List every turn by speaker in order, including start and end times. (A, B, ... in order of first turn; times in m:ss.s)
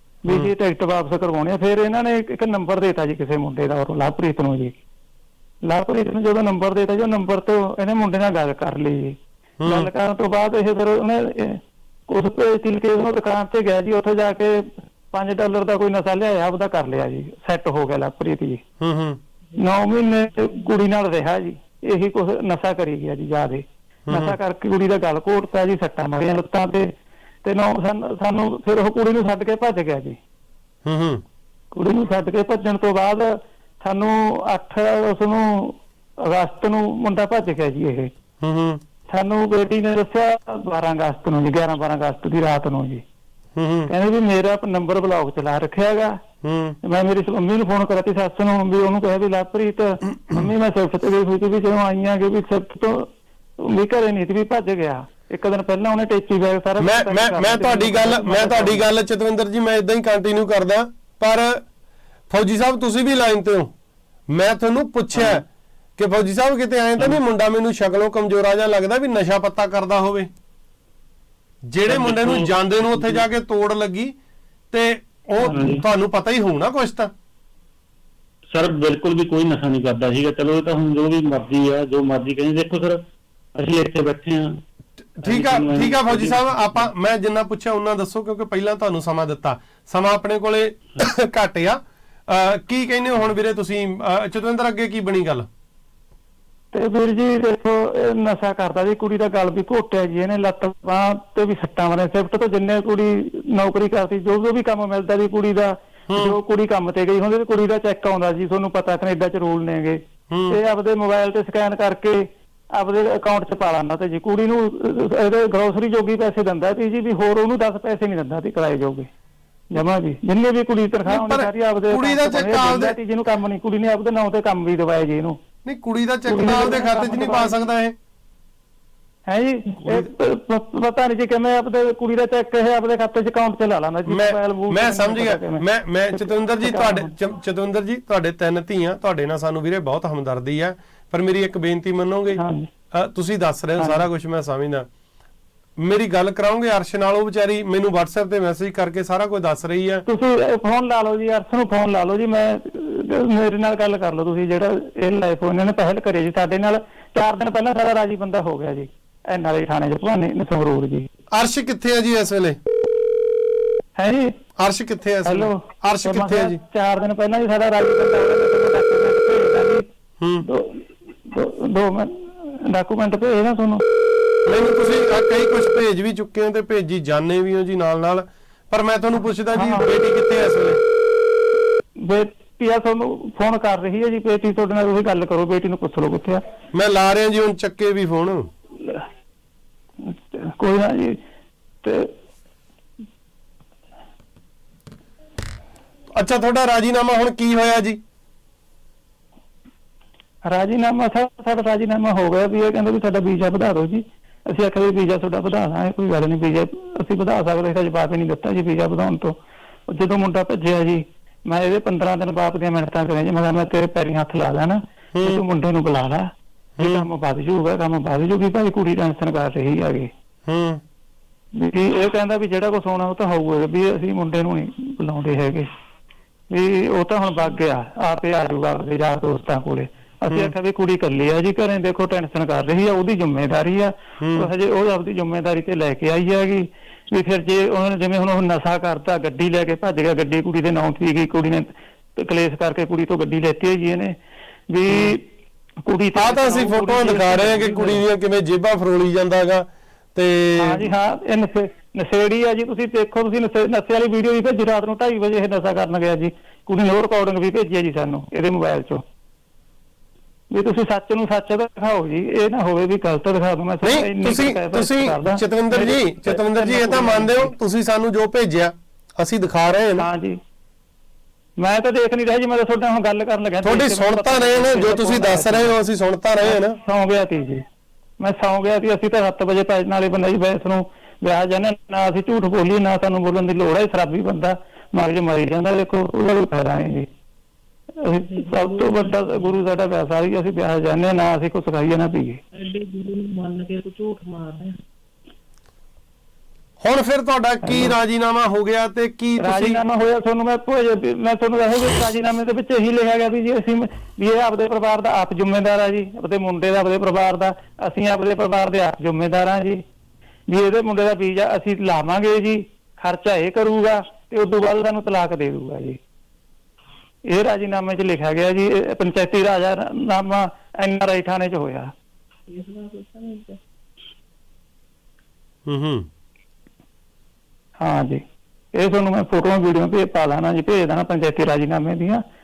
0:00.2-0:04.8 A
0:05.6-0:18.6 A
0:09.6-0:09.9 B
0:18.8-0:19.2 B
0:19.6-0:26.9 A
0:24.1-0:24.4 B
0:27.4-0:30.2 A
0:30.9-0:31.2 B
0:31.7-0:38.1 A
0:38.4-0:38.8 B
0:39.1-0:43.0 A
0:43.6-0:43.9 B
0:43.9-0:46.2 A
0:46.4-0:46.8 B
0:46.8-0:53.1 A
0:53.6-0:58.8 A
0:56.8-1:01.6 B
1:02.3-1:03.7 B
1:04.3-1:05.4 B
1:06.0-1:10.3 B
1:11.7-1:14.1 B
1:11.9-1:13.2 C
1:14.7-1:17.1 B
1:15.4-1:15.8 C
1:18.5-1:23.0 C
1:23.6-1:24.5 C
1:25.2-1:31.8 B
1:25.2-1:26.9 C
1:32.3-1:35.5 B
1:36.7-1:59.1 A
1:46.1-1:46.4 B
1:50.3-1:50.6 B
1:59.7-2:05.4 A
2:01.1-2:03.0 B
2:05.6-2:08.0 B
2:06.3-2:07.6 A
2:09.3-2:17.1 A
2:14.1-2:22.4 B
2:22.3-2:22.7 A
2:22.9-2:24.9 B
2:23.8-2:24.1 A
2:25.8-2:30.0 B
2:30.1-2:41.1 A
2:41.3-2:42.6 B
2:44.0-2:44.3 A
2:44.6-2:46.6 B
2:45.2-2:49.8 A
2:50.2-2:50.4 B
2:50.4-2:53.8 A
2:54.5-3:00.8 B
2:59.5-2:59.9 A
3:02.0-3:06.4 A
3:06.7-3:08.5 B
3:10.0-3:11.2 A
3:11.8-3:12.1 A
3:16.2-3:18.0 B
3:20.4-3:29.3 A
3:29.9-3:40.1 A
3:35.1-3:35.4 B
3:36.8-3:37.1 B
3:40.5-3:40.8 B
3:41.5-3:45.7 A
3:46.5-4:04.1 A
3:50.3-3:50.5 B
3:54.2-3:54.5 B
4:04.7-4:05.3 A
4:05.8-4:08.0 A
4:06.2-4:10.9 B
4:10.6-4:19.0 A
4:20.5-4:27.5 A
4:23.8-4:30.1 B
4:30.0-4:30.4 A
4:31.6-4:35.8 A
4:33.6-4:36.8 B
4:36.4-4:37.6 A
4:38.2-4:47.1 A
4:48.0-4:52.4 A
4:48.3-4:49.4 D
4:52.5-4:54.8 D
4:56.8-4:59.8 B
4:57.6-4:58.0 A
4:59.4-5:09.8 A
5:10.5-5:16.0 A
5:17.3-5:21.9 A
5:22.5-5:23.6 D
5:25.7-5:26.1 B
5:27.8-5:28.2 A
5:28.8-5:32.2 A